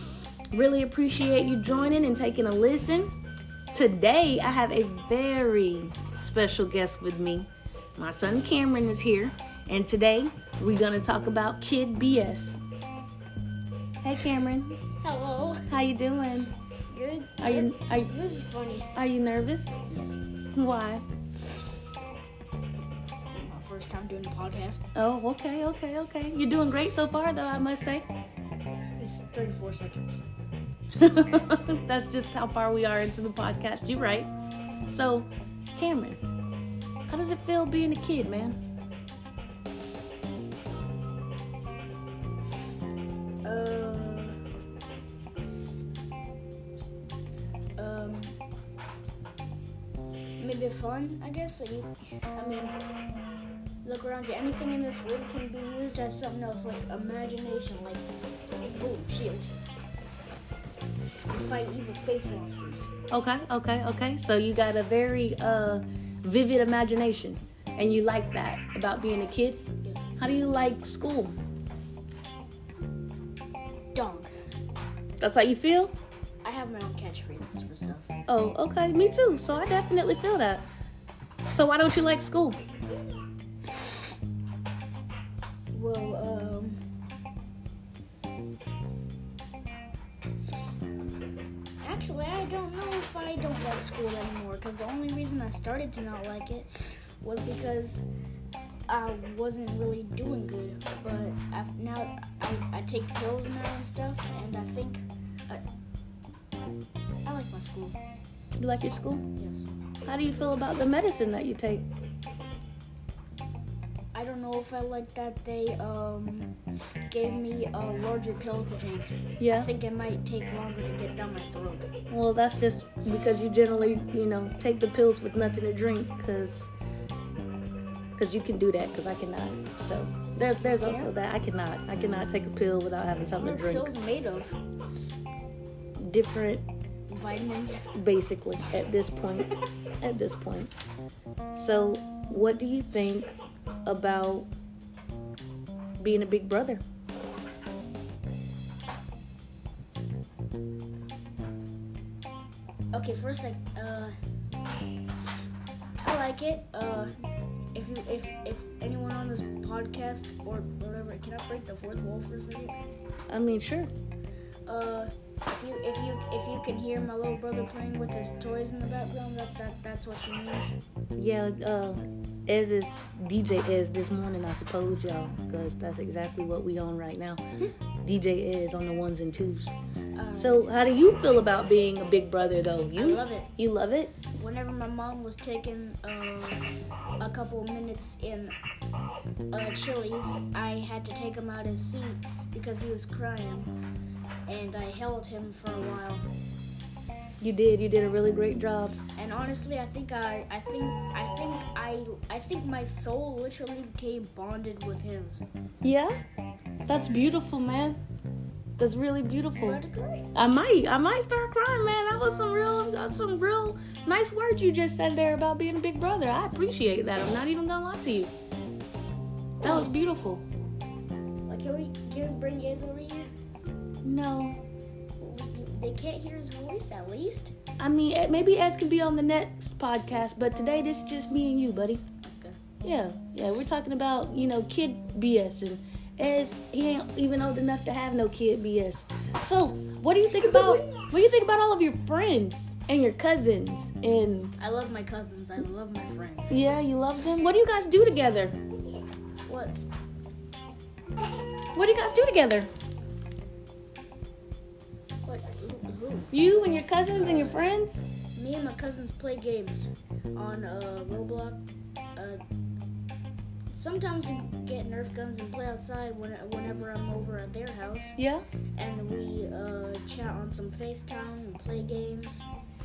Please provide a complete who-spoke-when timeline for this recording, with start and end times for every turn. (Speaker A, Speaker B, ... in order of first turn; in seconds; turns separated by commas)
Speaker A: 0.5-3.1, Speaker A: 3.7-12.6, Speaker A: 14.0-14.8, Speaker B: 15.0-15.7, Speaker A: 15.7-16.5, Speaker B: 16.9-18.9, Speaker A: 17.4-18.1, Speaker A: 18.9-19.8, Speaker A: 20.5-21.0, Speaker B: 23.4-24.9, Speaker A: 24.9-28.0, Speaker B: 29.0-30.2, Speaker A: 30.9-34.3, Speaker A: 34.9-36.2, Speaker A: 37.1-38.6, Speaker B: 43.4-44.4, Speaker B: 47.8-48.4, Speaker B: 50.4-52.7, Speaker B: 53.8-58.0, Speaker B: 58.6-59.5, Speaker B: 61.3-62.9, Speaker A: 63.1-69.6, Speaker A: 70.2-71.3, Speaker B: 73.9-74.3, Speaker A: 75.2-75.9, Speaker B: 76.4-78.1, Speaker A: 78.3-80.6, Speaker A: 81.5-82.6, Speaker B: 85.7-86.8, Speaker B: 91.8-96.7, Speaker B: 97.2-98.1, Speaker B: 98.9-105.6, Speaker B: 107.2-108.0, Speaker A: 108.6-109.2, Speaker B: 109.4-109.6, Speaker A: 110.0-111.8, Speaker B: 114.1-116.5, Speaker B: 117.1-121.9, Speaker A: 119.4-119.7, Speaker A: 122.1-126.7, Speaker A: 128.2-133.9, Speaker B: 130.6-131.1, Speaker B: 133.4-134.6, Speaker A: 136.0-136.6, Speaker B: 137.1-137.9, Speaker A: 137.9-139.5, Speaker A: 140.0-140.7, Speaker A: 141.5-143.3, Speaker A: 143.8-144.5, Speaker A: 146.0-146.8, Speaker B: 152.9-154.1, Speaker B: 156.0-157.1, Speaker B: 157.7-162.8, Speaker A: 163.3-163.9, Speaker B: 164.7-170.8, Speaker A: 171.2-177.4, Speaker A: 178.0-179.7, Speaker B: 180.2-180.8, Speaker A: 180.3-184.1, Speaker B: 182.9-183.5, Speaker B: 184.3-186.7, Speaker B: 187.2-188.5, Speaker B: 189.5-193.7, Speaker B: 194.5-196.2, Speaker A: 197.4-199.0, Speaker B: 199.1-205.5, Speaker A: 205.8-206.2, Speaker A: 206.9-208.0, Speaker A: 208.8-209.8, Speaker B: 209.6-210.3, Speaker A: 210.3-218.3, Speaker A: 219.6-220.4, Speaker B: 221.5-223.3, Speaker A: 224.0-224.6, Speaker B: 225.2-227.5, Speaker A: 227.8-232.0, Speaker B: 232.2-232.6, Speaker A: 232.8-244.5, Speaker B: 244.6-246.7, Speaker A: 246.5-248.6, Speaker B: 249.4-249.8, Speaker A: 251.7-252.7, Speaker B: 255.2-256.3, Speaker A: 256.3-258.1, Speaker B: 258.3-261.6, Speaker B: 262.1-262.4, Speaker B: 263.7-268.2, Speaker A: 268.2-268.4, Speaker B: 268.8-272.4